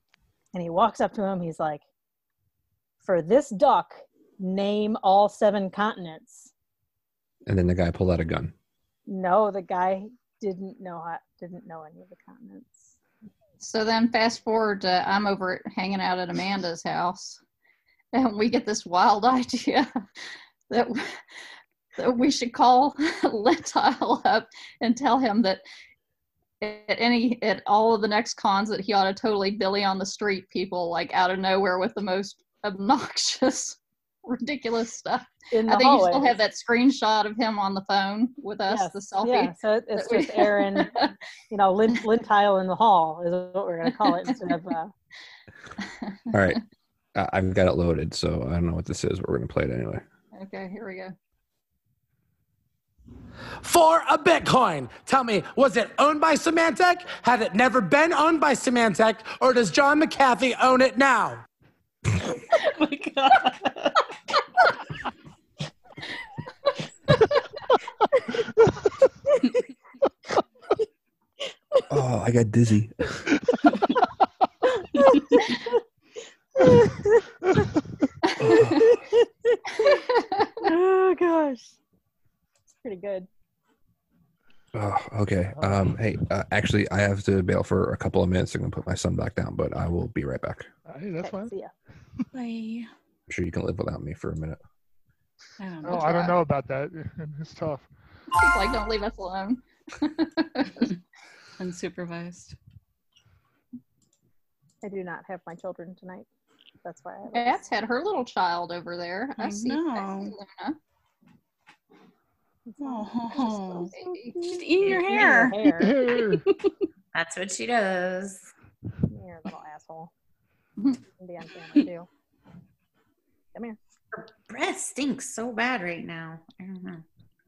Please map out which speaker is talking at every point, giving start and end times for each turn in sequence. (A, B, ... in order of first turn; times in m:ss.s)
0:00.5-0:01.8 A
0:03.0-0:06.5 A
0:07.4-0:08.5 B
0:09.1-0:12.9 A
0:13.6-0:17.4 C
0:18.1-0:19.9 C
0:20.7-0:21.2 C
0:22.0-0:25.6 C
0:26.6-0:41.0 C
0:35.5-0:36.4 A
0:38.7-0:44.9 A
0:44.1-0:44.3 C
0:46.3-0:46.6 B
0:47.1-0:50.0 B
0:50.3-0:51.1 C
0:53.6-1:01.4 D
1:02.5-1:04.1 A
1:11.9-1:13.3 B
1:15.0-1:15.8 A
1:16.6-1:17.3 A
1:18.4-1:19.0 B
1:18.4-1:20.0 A
1:20.6-1:21.8 A
1:22.7-1:23.3 A
1:24.7-1:30.7 B
1:25.6-1:25.8 E
1:30.8-1:31.5 E
1:31.2-1:31.7 A
1:32.3-1:32.9 F
1:33.3-1:34.6 B
1:35.6-1:36.3 F
1:35.8-1:37.9 E
1:38.4-1:40.9 C
1:41.6-1:42.5 F
1:44.8-1:46.2 A
1:46.8-1:47.6 A
1:47.3-1:50.8 C
1:49.4-1:50.3 F
1:52.7-1:56.0 A
1:52.8-1:53.9 F
1:53.3-1:54.4 C
1:54.4-1:55.6 F
1:55.8-1:56.4 E
1:56.1-1:56.7 F
1:57.1-1:58.5 G
1:59.1-2:00.1 A
2:01.2-2:02.1 A
2:04.1-2:07.0 G